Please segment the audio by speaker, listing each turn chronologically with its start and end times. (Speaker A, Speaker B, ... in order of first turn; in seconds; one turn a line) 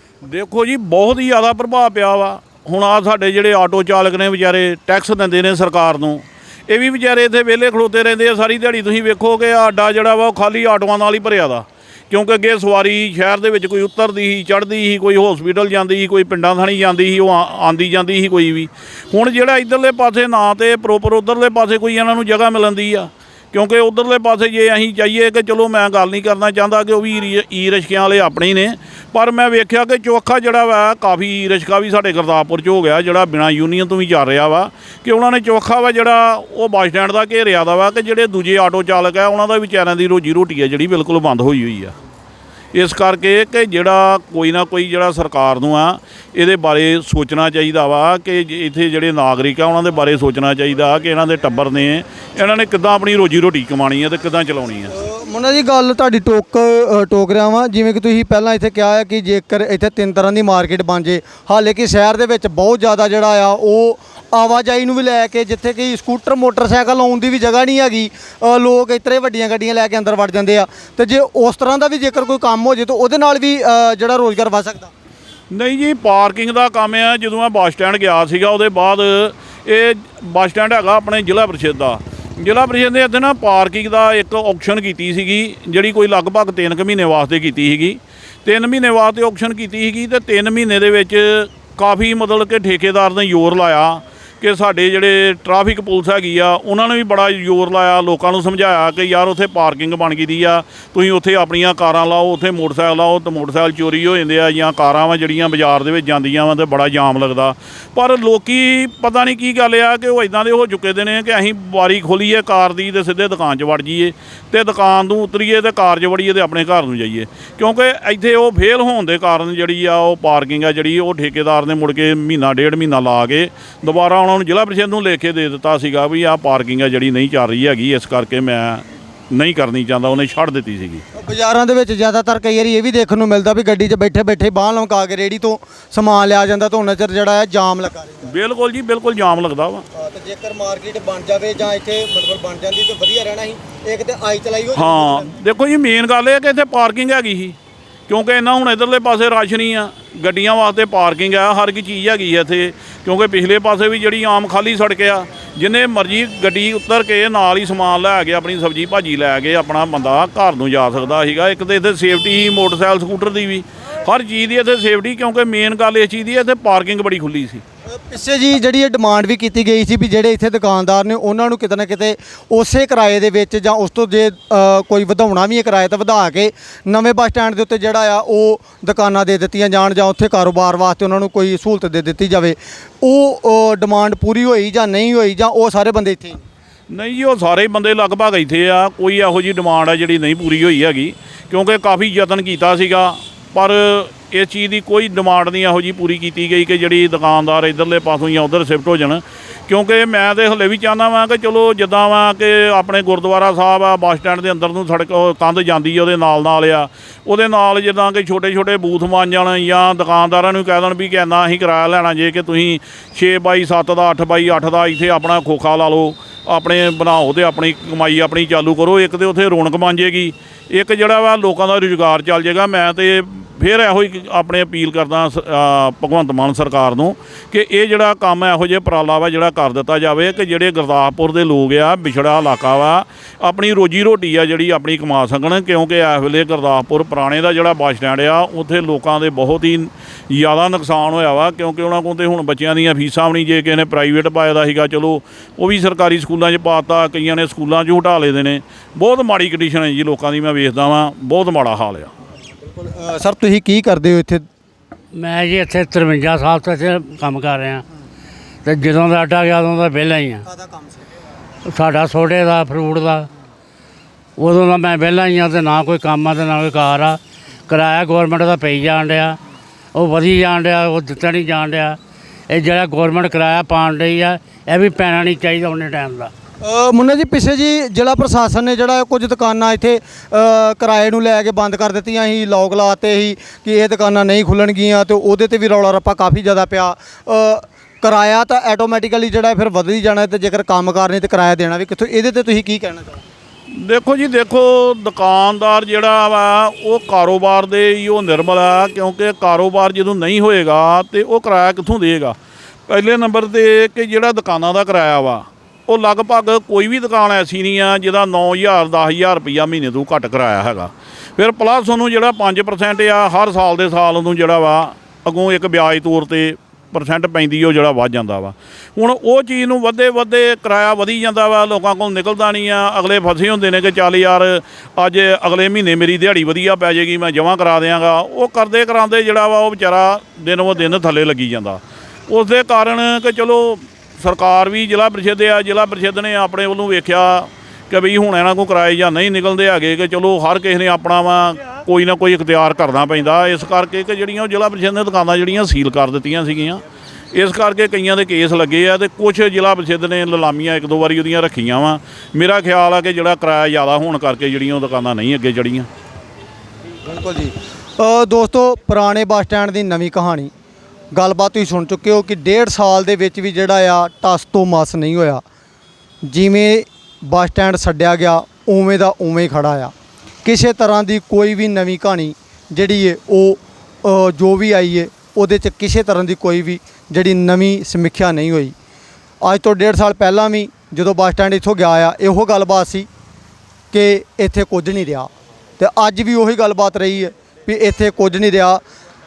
Speaker A: 0.2-41.9
Speaker A: 42.8-54.9
Speaker B: 54.9-74.9
Speaker A: 75.5-131.0
Speaker B: 131.2-138.3
Speaker A: 138.2-139.8
Speaker B: 139.9-145.3
Speaker A: 144.8-147.6
Speaker A: 148.1-167.6
Speaker B: 168.0-186.4
Speaker A: 186.9-252.1
Speaker B: 252.6-254.5
Speaker C: 255.1-257.9
Speaker C: 258.6-260.4
Speaker B: 260.5-261.0
Speaker C: 261.7-263.3
Speaker C: 264.4-269.4
Speaker C: 269.9-272.0
Speaker C: 272.5-276.3
Speaker B: 276.6-293.2
Speaker A: 293.8-302.4
Speaker A: 302.9-346.8
Speaker A: 347.3-355.9
Speaker B: 357.1-360.5
Speaker B: 361.1-365.4
Speaker B: 366.2-369.9
Speaker B: 370.4-378.8
Speaker B: 379.4-383.1
Speaker B: 383.9-388.8